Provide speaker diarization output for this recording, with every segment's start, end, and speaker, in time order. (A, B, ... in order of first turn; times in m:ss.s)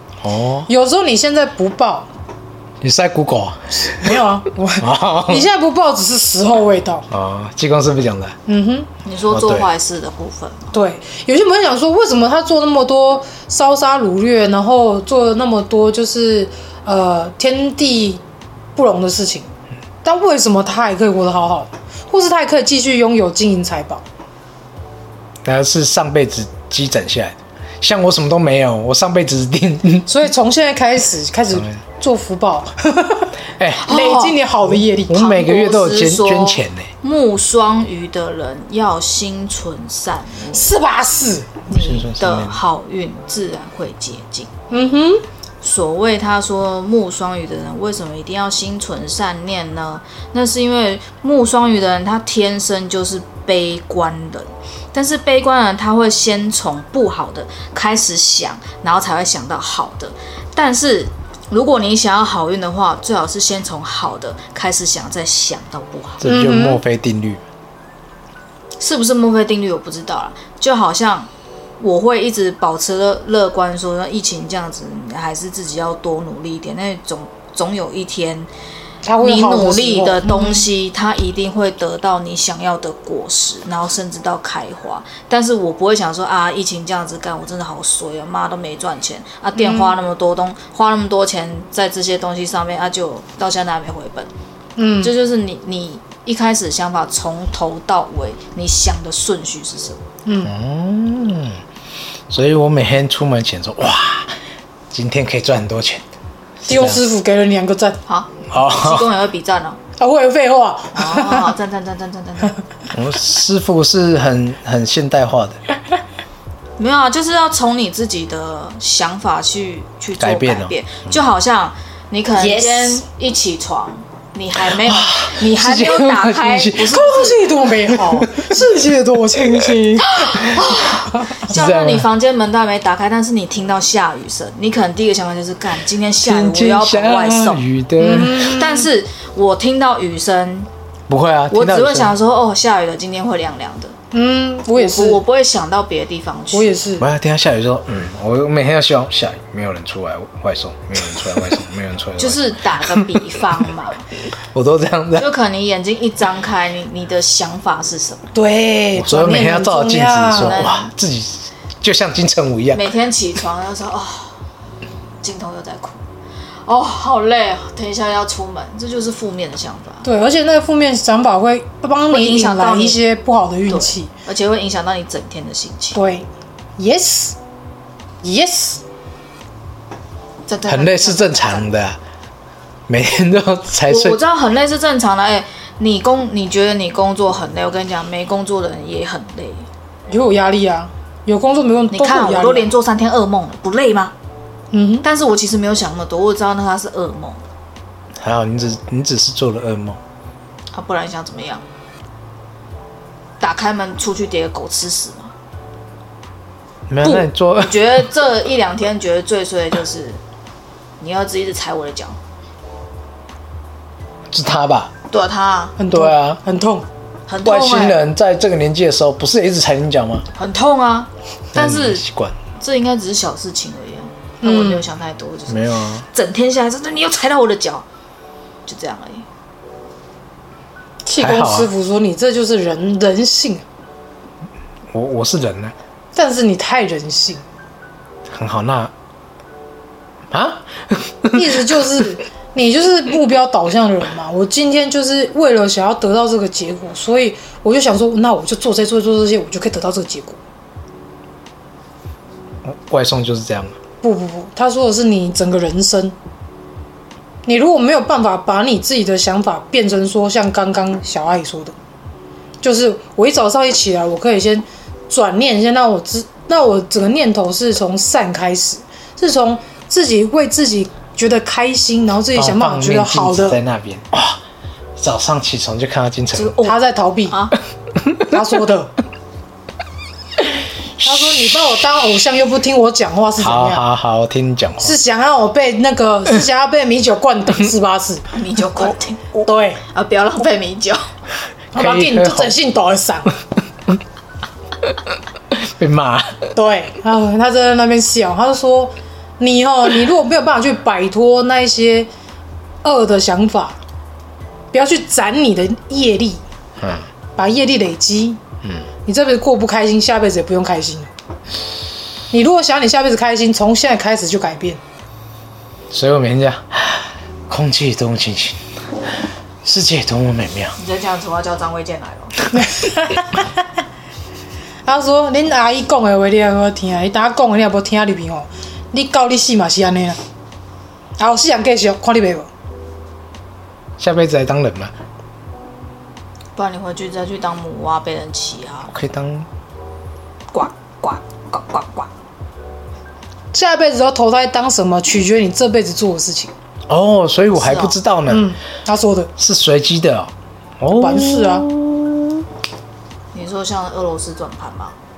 0:00.2-0:00.7 A
0:00.7-0:02.1 B
0:02.8-0:04.2 A
0:03.8-0:07.1 B
0:04.8-0:05.5 A
0:07.1-0:08.4 A
0:08.5-0:08.9 B
0:09.0-0:10.7 C
0:09.3-0:09.7 A
0:10.7-0:18.2 B
0:18.8-0:19.5 B
0:20.0-0:24.0 B
0:25.4-0:30.1 A
0:30.1-0:35.2 B
0:31.5-0:31.8 A
0:33.6-0:33.9 A
0:33.9-0:34.4 C
0:34.6-0:36.9 A
0:35.1-0:40.7 C
0:40.5-0:41.6 B
0:41.7-0:44.5 C
0:41.7-0:42.6 A
0:44.7-0:45.2 B
0:45.6-1:06.2 C
1:06.2-1:07.4 A
1:06.2-1:06.8 B
1:08.8-1:11.3 C
1:11.8-1:18.5 C
1:19.0-1:20.7 B
1:19.2-1:34.3 C
1:29.6-1:30.0 B
1:34.8-1:35.1 B
1:35.0-1:40.0 C
1:40.3-1:40.5 B
1:40.4-1:41.6 A
1:42.3-1:44.3 A
1:44.9-1:46.0 A
1:46.6-1:47.0 A
1:46.7-1:48.0 B
1:48.1-1:49.8 C
1:48.5-1:49.1 A
1:50.0-1:51.5 B
1:51.0-1:52.6 C
1:52.9-1:55.6 A
1:56.8-2:07.5 C
2:00.2-2:01.2 A
2:02.4-2:03.0 B
2:04.7-2:06.9 A
2:06.9-2:10.6 B
2:07.9-2:08.6 A
2:10.0-2:20.7 C
2:11.5-2:12.1 A
2:16.2-2:18.5 A
2:18.0-2:18.9 B
2:21.1-2:22.1 A
2:21.5-2:24.0 C
2:24.1-2:25.2 B
2:24.8-2:26.8 C
2:26.5-2:27.1 B
2:27.0-2:33.4 A
2:32.2-2:34.1 C
2:34.5-2:35.3 A
2:35.2-2:38.3 C
2:38.3-2:40.6 B
2:39.0-2:42.8 A
2:40.4-2:40.9 C
2:42.7-2:44.4 C
2:45.2-2:46.0 C
2:46.6-2:50.1 C
2:50.0-2:54.1 B
2:52.1-2:53.0 C
2:53.7-2:56.0 C
2:56.0-2:56.3 B
2:56.8-2:57.4 B
2:58.2-2:58.8 B
3:00.5-3:01.7 C
3:00.7-3:02.0 A
3:02.9-3:04.2 A
3:03.9-3:09.7 C
3:10.1-3:12.7 B
3:11.9-3:14.1 C
3:14.7-3:15.1 B
3:15.0-3:17.4 C
3:18.2-3:20.0 A
3:20.7-3:21.6 C
3:23.4-3:25.3 C
3:26.9-3:28.1 A
3:27.0-3:30.2 C
3:31.0-3:32.2 C
3:34.3-3:34.9 A
3:35.1-3:35.8 C
3:35.8-3:36.9 B
3:35.9-3:36.4 A
3:37.3-3:38.0 C
3:37.4-3:40.3 A
3:40.4-3:42.0 C
3:41.6-3:42.4 A
3:42.6-3:47.8 C
3:44.4-3:44.8 B
3:45.5-3:46.1 A
3:48.7-3:49.3 C
3:51.0-3:53.6 B
3:51.2-3:51.7 A
3:54.9-3:55.8 A
3:56.1-3:57.4 B
3:58.3-3:58.9 A
4:00.3-4:02.0 A
4:01.3-4:10.4 B
4:12.6-4:13.7 A
4:14.0-4:16.2 B
4:17.4-4:21.7 B
4:22.6-4:33.6 B
4:32.3-4:34.4 A
4:35.0-4:36.6 A
4:36.3-4:36.8 C
4:36.6-4:37.4 B
4:37.3-4:37.6 C
4:38.3-4:38.9 B
4:41.0-4:41.7 A
4:41.0-4:43.8 B
4:43.4-4:44.9 A
4:44.8-4:48.3 B
4:48.3-4:51.1 C
4:49.4-4:49.8 B
4:51.7-4:52.6 A
4:51.7-4:53.3 B
4:55.5-4:56.4 A
4:56.6-5:02.1 B
5:02.8-5:03.8 B
5:04.7-5:06.4 B
5:06.8-5:07.1 A
5:07.4-5:08.4 B
5:08.6-5:08.9 A
5:09.1-5:11.1 B
5:12.3-5:14.8 B
5:15.9-5:18.6 A
5:19.6-5:20.8 A
5:20.8-5:22.4 C
5:22.5-5:23.5 B
5:24.9-5:30.2 B
5:31.2-5:32.5 B
5:34.0-5:34.9 A
5:36.6-5:38.9 C
5:38.9-5:39.5 A
5:40.5-5:42.1 C
5:43.5-5:46.5 B
5:46.9-5:48.5 A
5:47.6-5:48.0 C
5:48.3-5:49.3 B
5:49.4-5:52.5 A
5:51.0-5:51.7 B
5:53.3-5:55.0 C